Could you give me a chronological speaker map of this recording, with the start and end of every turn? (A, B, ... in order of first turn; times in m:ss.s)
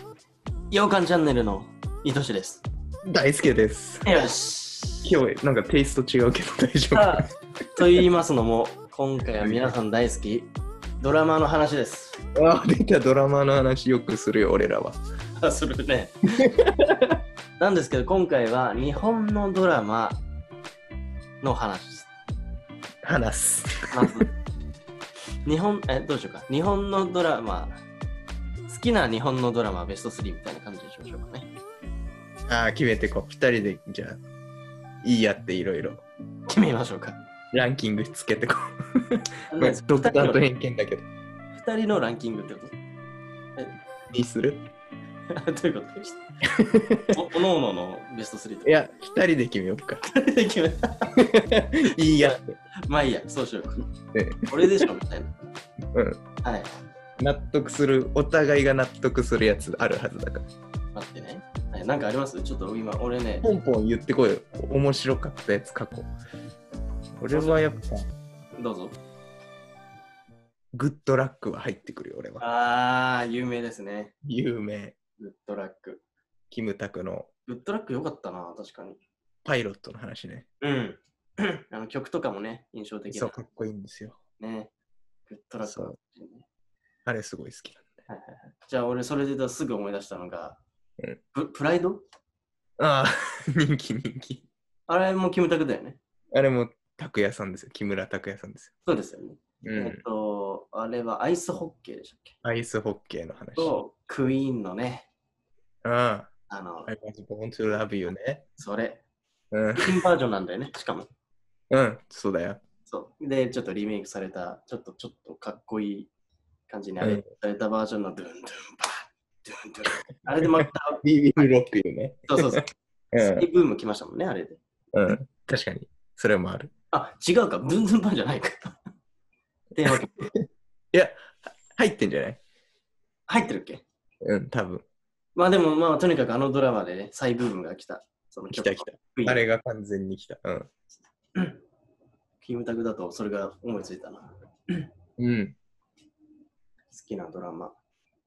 0:00.7-0:02.6 A
0:03.0-0:04.2 B
0:04.0-0:05.1 A
0:05.0-0:08.0 B
0:06.9-0:07.2 A
0:07.7-0:10.5 A
0:09.4-0:09.7 B
0:11.0-0:12.2 A
0:12.3-0:15.0 B
0:15.4-0:16.2 A
0:16.4-0:17.2 B
0:17.6-0:20.2 A
0:21.4-0:22.1 A
0:23.0-0:24.1 B
0:23.9-0:24.3 A
0:25.4-0:27.8 A
0:28.7-0:31.5 A
0:32.5-0:34.2 B
0:35.0-0:36.0 B
0:36.5-0:37.2 A
0:37.5-0:38.6 B
0:39.1-0:41.0 B
0:39.5-0:40.4 A
0:41.5-0:42.7 A
0:44.1-0:44.6 B
0:45.3-0:46.2 A
0:46.6-0:47.2 B
0:47.1-0:48.8 A
0:48.6-0:50.0 B
0:50.1-0:51.1 A
0:51.2-0:52.6 B
0:52.0-0:53.8 A
0:54.1-0:54.4 B
0:54.5-0:55.3 A
0:55.9-0:56.2 B
0:56.4-0:56.7 A
0:57.2-1:00.4 B
1:00.9-1:03.4 A
1:03.4-1:06.1 B
1:07.2-1:08.1 B
1:07.3-1:07.6 A
1:08.6-1:09.0 A
1:10.7-1:12.4 B
1:12.4-1:14.1 A
1:14.2-1:15.0 B
1:15.2-1:16.0 A
1:16.5-1:17.3 B
1:17.5-1:19.0 A
1:19.4-1:20.4 B
1:20.6-1:23.4 A
1:23.1-1:24.2 B
1:24.4-1:24.7 A
1:25.3-1:26.4 A
1:25.6-1:26.0 B
1:27.0-1:27.9 B
1:28.1-1:30.6 A
1:31.3-1:32.0 A
1:32.8-1:34.4 B
1:34.9-1:36.0 A
1:36.3-1:38.7 B
1:38.8-1:42.4 A
1:39.6-1:40.0 B
1:42.4-1:43.8 B
1:43.6-1:45.1 A
1:45.8-1:46.3 B
1:46.5-1:46.9 A
1:46.9-1:48.4 B
1:48.6-1:49.0 A
1:49.5-1:50.0 B
1:49.8-1:51.1 A
1:51.7-1:52.6 B
1:52.8-1:56.1 A
1:56.7-2:01.5 A
1:57.0-1:57.2 B
2:01.0-2:02.6 B
2:02.3-2:04.6 A
2:03.1-2:03.4 B
2:04.9-2:06.7 B
2:06.9-2:08.7 A
2:09.7-2:10.3 A
2:10.2-2:12.4 B
2:13.3-2:13.8 A
2:14.2-2:14.8 B
2:15.4-2:19.5 A
2:18.5-2:20.7 B
2:22.4-2:24.9 A
2:25.2-2:25.6 B
2:26.9-2:27.7 A